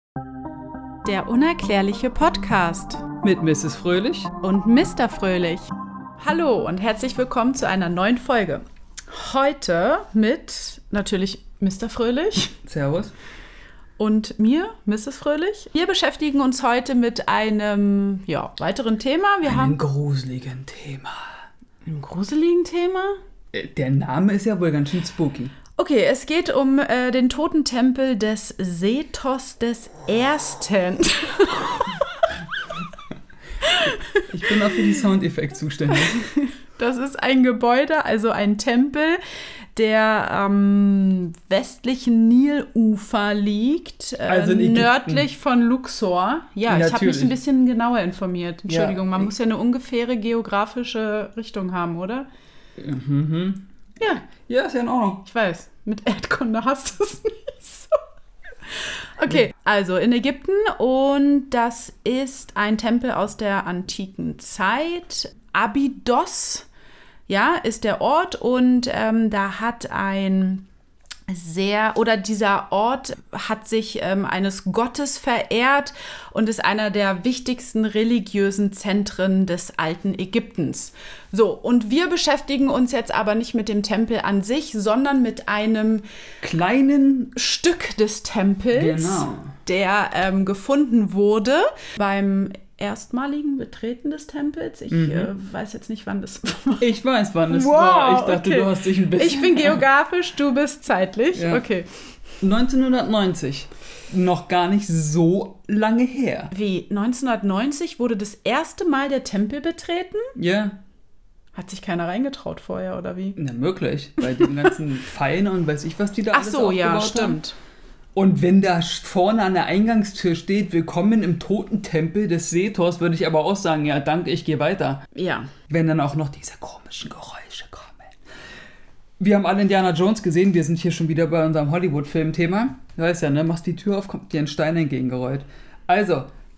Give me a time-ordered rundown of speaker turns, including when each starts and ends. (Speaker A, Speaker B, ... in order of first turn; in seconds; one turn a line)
Speaker A: 1.0-3.0
Speaker B: 3.2-4.3
Speaker A: 4.4-5.7
Speaker A: 6.2-12.6
Speaker B: 12.7-13.1
Speaker A: 14.0-19.8
Speaker B: 19.4-21.3
Speaker A: 21.8-23.2
Speaker B: 23.5-25.5
Speaker A: 25.7-32.3
Speaker A: 33.6-34.2
Speaker B: 34.3-36.2
Speaker A: 35.9-39.2
Speaker A: 39.7-52.3
Speaker B: 44.2-45.3
Speaker B: 46.7-47.4
Speaker B: 48.7-49.3
Speaker B: 52.8-53.7
Speaker A: 54.0-54.3
Speaker B: 54.5-55.2
Speaker A: 55.2-58.0
Speaker A: 59.2-66.7
Speaker A: 67.3-70.7
Speaker A: 71.3-86.0
Speaker B: 86.4-87.3
Speaker A: 87.3-96.9
Speaker B: 88.7-89.5
Speaker B: 94.9-95.3
Speaker B: 96.8-99.8
Speaker A: 97.5-101.9
Speaker B: 101.3-101.7
Speaker B: 102.4-106.5
Speaker A: 106.5-110.3
Speaker B: 110.3-110.8
Speaker A: 111.5-113.4
Speaker B: 113.4-117.4
Speaker A: 116.3-117.6
Speaker B: 118.1-125.0
Speaker A: 125.1-125.5
Speaker B: 125.7-128.1
Speaker B: 129.2-136.3